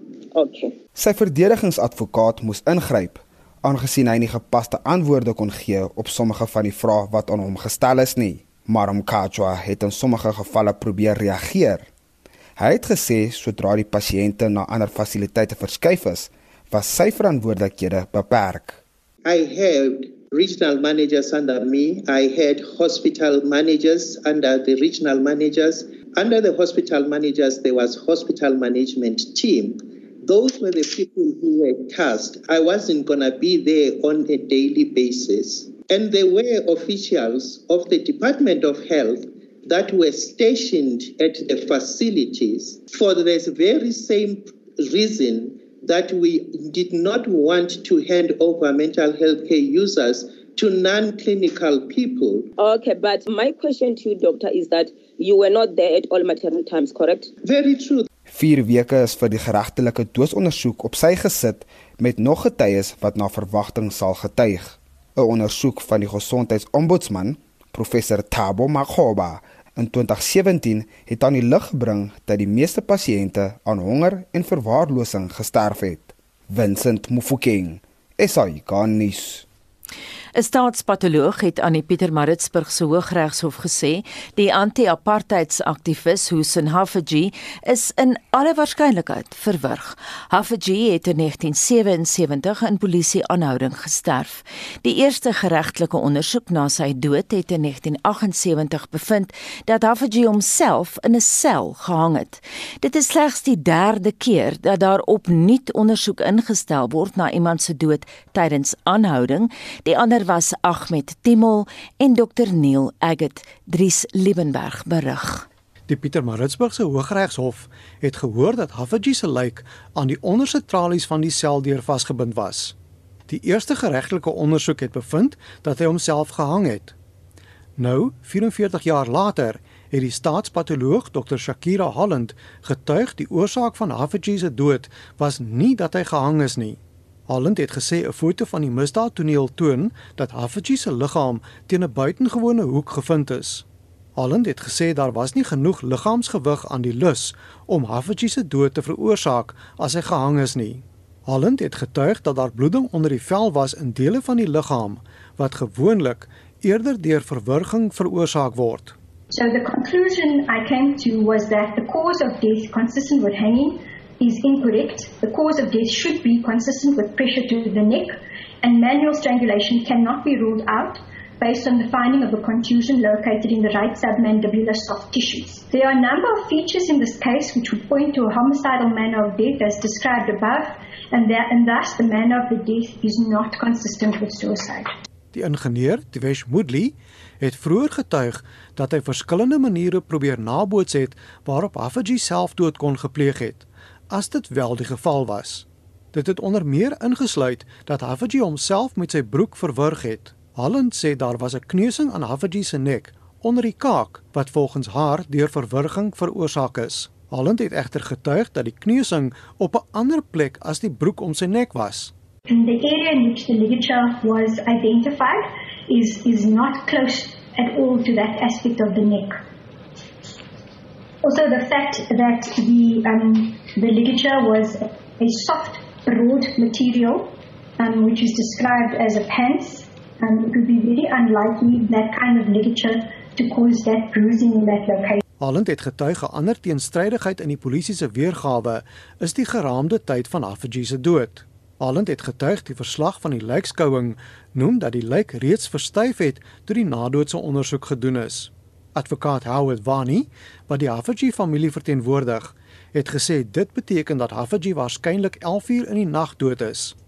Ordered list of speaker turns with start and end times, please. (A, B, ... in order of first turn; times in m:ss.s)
0:00.4-0:00.7 A
0:01.0-0:11.8 B
0:12.6-0:18.8 B
0:19.2-0:52.5 C
0:52.6-0:57.3 A
0:57.4-0:58.1 C
0:58.3-1:19.4 B
1:20.4-1:55.5 D
1:55.9-2:02.7 E
2:03.3-2:06.9 E
2:07.8-2:23.6 E
2:24.2-2:39.0 E
2:39.3-3:04.9 F
3:05.3-3:32.1 E
3:32.5-3:39.4 F
3:41.2-3:55.2 F
3:55.4-4:17.0 E